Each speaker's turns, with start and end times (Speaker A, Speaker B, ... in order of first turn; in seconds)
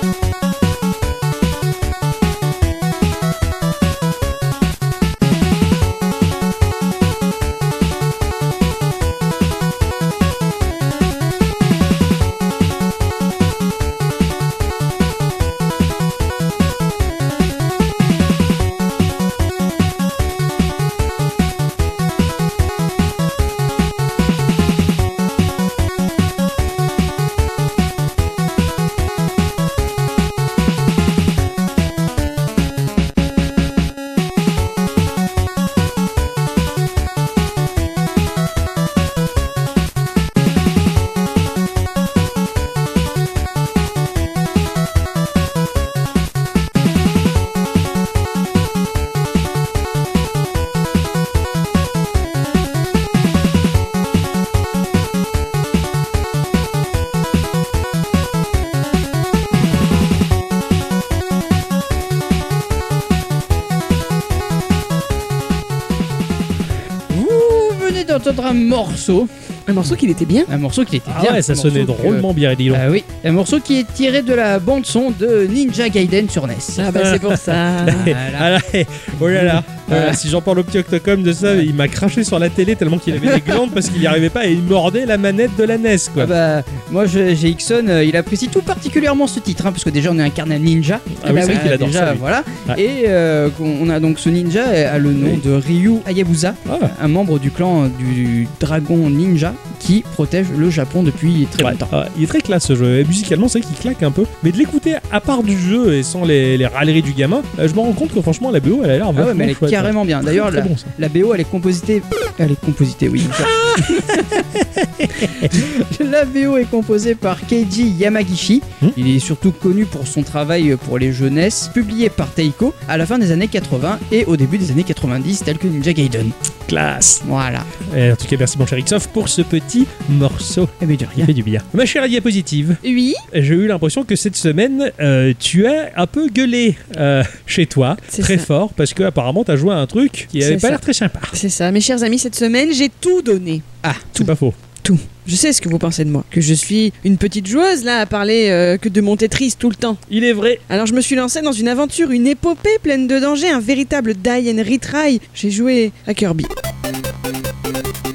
Speaker A: 67.1-69.3, 70.5-77.0, 77.8-78.5, 79.2-80.2, 86.2-101.9, 109.1-114.4, 115.1-126.3, 127.2-127.7, 130.8-131.3, 143.8-144.1
Speaker B: 69.7-70.5, 76.8-78.1, 132.8-133.2, 138.1-138.5, 140.4-140.8, 141.3-143.6, 144.8-150.0, 150.7-156.5
Speaker C: 71.1-72.8, 76.9-86.3, 91.2-92.8, 96.7-96.9, 101.6-110.9, 113.3-115.6, 126.7-127.2, 127.8-132.8, 133.3-141.3, 144.2-144.6, 150.1-150.6